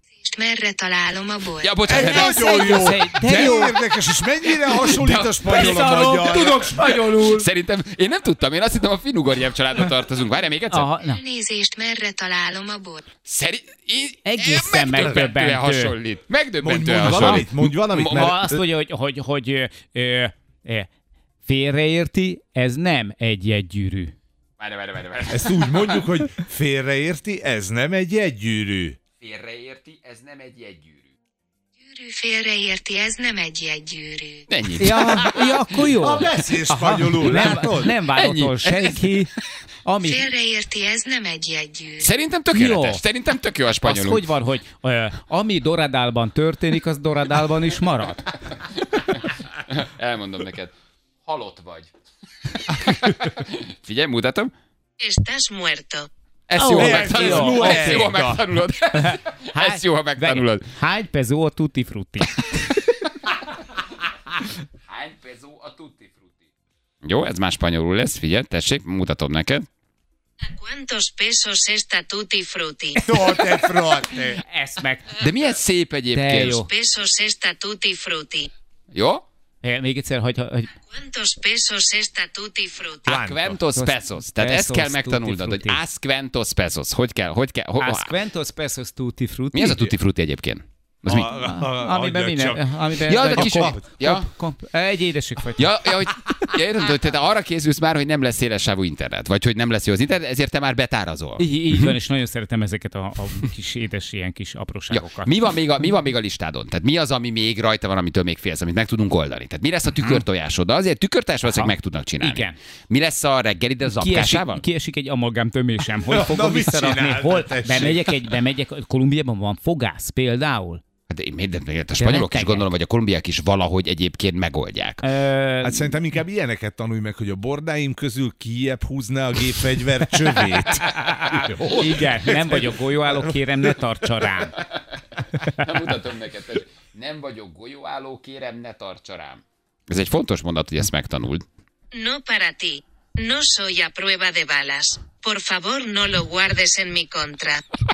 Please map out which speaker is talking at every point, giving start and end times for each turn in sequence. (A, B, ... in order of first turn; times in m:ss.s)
0:00.2-0:02.4 A
0:01.6-0:02.4 B
0:01.9-0:06.8 C
0:01.9-0:03.8 D
0:04.6-0:07.5 D
0:04.8-0:05.9 B
0:06.8-0:10.9 B
0:10.7-0:11.2 D
0:11.0-0:13.0 A
0:13.2-0:18.4 B
0:14.2-0:16.0 D
0:16.6-0:18.6 C
0:17.0-0:17.5 D
0:18.0-0:20.9 D
0:21.5-0:24.1 D
0:24.6-0:26.1 B
0:25.3-0:29.0 C
0:29.2-0:31.1 B
0:31.8-0:34.5 A
0:34.5-0:35.7 B
0:34.8-0:39.3 D
0:35.9-0:38.0 C
0:38.1-0:39.2 B
0:39.8-0:40.3 D
0:40.0-0:42.0 A
0:42.0-0:44.2 B
0:42.5-0:43.0 D
0:43.8-0:48.3 D
0:48.7-0:50.7 B
0:51.2-0:51.9 B
0:52.5-0:54.5 B
0:55.0-0:56.1 A
0:56.5-1:00.7 B
0:56.6-0:58.2 D
0:56.8-0:58.4 C
0:59.0-1:03.0 D
1:04.9-1:06.3 B
1:07.0-1:09.7 B
1:10.4-1:13.1 A
1:13.0-1:14.4 C
1:14.4-1:15.2 D
1:15.2-1:16.6 B
1:16.1-1:16.7 D
1:16.6-1:18.5 A
1:18.9-1:19.2 B
1:19.6-1:20.7 D
1:20.8-1:23.1 A
1:23.0-1:23.6 C
1:23.1-1:28.1 B
1:23.8-1:25.8 D
1:27.8-1:29.9 D
1:29.5-1:31.3 B
1:31.0-1:33.8 C
1:31.1-1:35.7 D
1:33.0-1:34.3 B
1:35.6-1:41.9 B
1:41.4-1:45.3 D
1:44.9-1:54.6 B
1:51.4-1:52.6 D
1:53.9-2:00.8 D
1:56.0-1:58.4 C
2:01.1-2:05.1 B
2:02.0-2:02.7 D
2:05.0-2:06.0 D
2:05.6-2:14.3 C
2:10.2-2:14.5 D
2:14.5-2:14.8 B
2:15.4-2:21.5 B
2:21.9-2:27.6 A